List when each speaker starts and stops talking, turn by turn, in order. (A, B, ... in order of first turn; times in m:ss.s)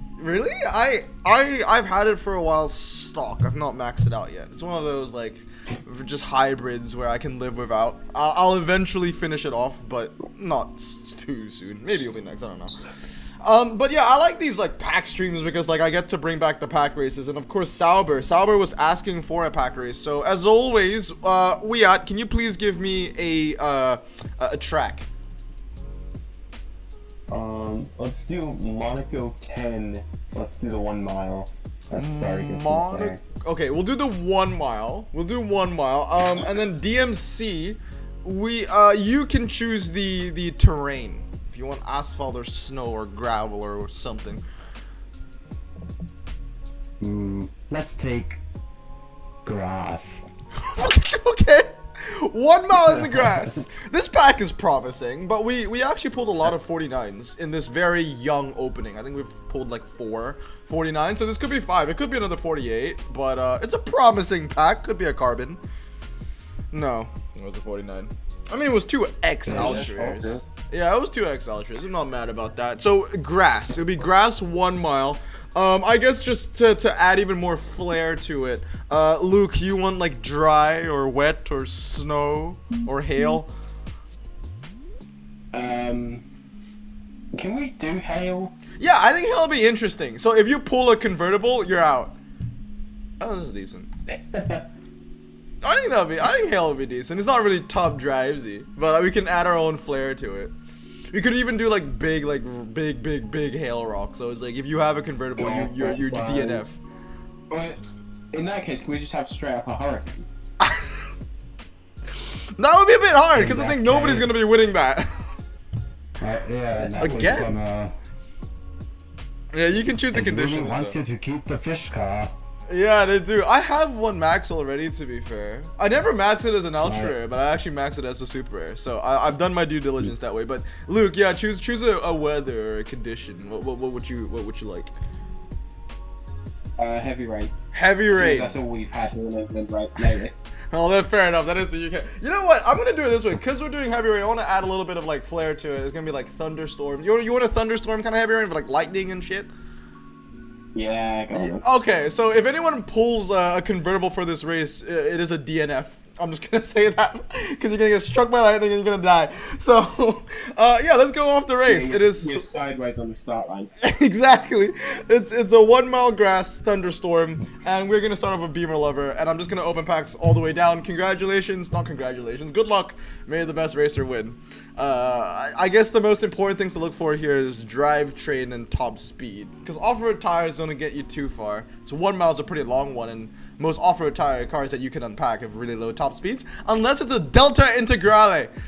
0:00.2-0:12.7 A
0:13.4-0:25.0 A
0:27.3-0:33.2 B
0:31.9-0:44.4 A
0:47.0-0:48.4 C
0:49.4-0:50.2 C
0:50.6-1:05.6 A
0:52.7-0:53.7 C
1:06.7-1:23.5 A
1:09.4-1:09.9 C
1:09.5-1:10.4 D
1:25.5-1:26.2 D
1:27.3-1:28.5 D
1:28.8-1:32.2 A
1:33.2-1:33.9 A
1:34.1-1:34.6 D
1:35.6-1:40.5 A
1:41.1-1:46.8 A
1:45.4-1:46.6 D
1:47.5-1:50.2 D
1:50.6-1:50.9 A
1:52.2-1:55.2 A
1:53.3-1:54.4 C
1:56.2-1:57.9 C
1:56.7-1:57.5 D
1:57.0-1:57.5 A
1:59.5-2:01.0 A
2:00.1-2:02.3 C
2:02.7-2:14.9 A
2:06.8-2:07.2 C
2:16.8-2:17.5 D
2:17.7-2:18.6 A
2:18.1-2:20.3 D
2:20.7-2:29.5 A
2:30.7-2:31.6 D
2:31.4-2:42.5 A
2:41.7-2:43.7 D
2:43.8-3:08.5 A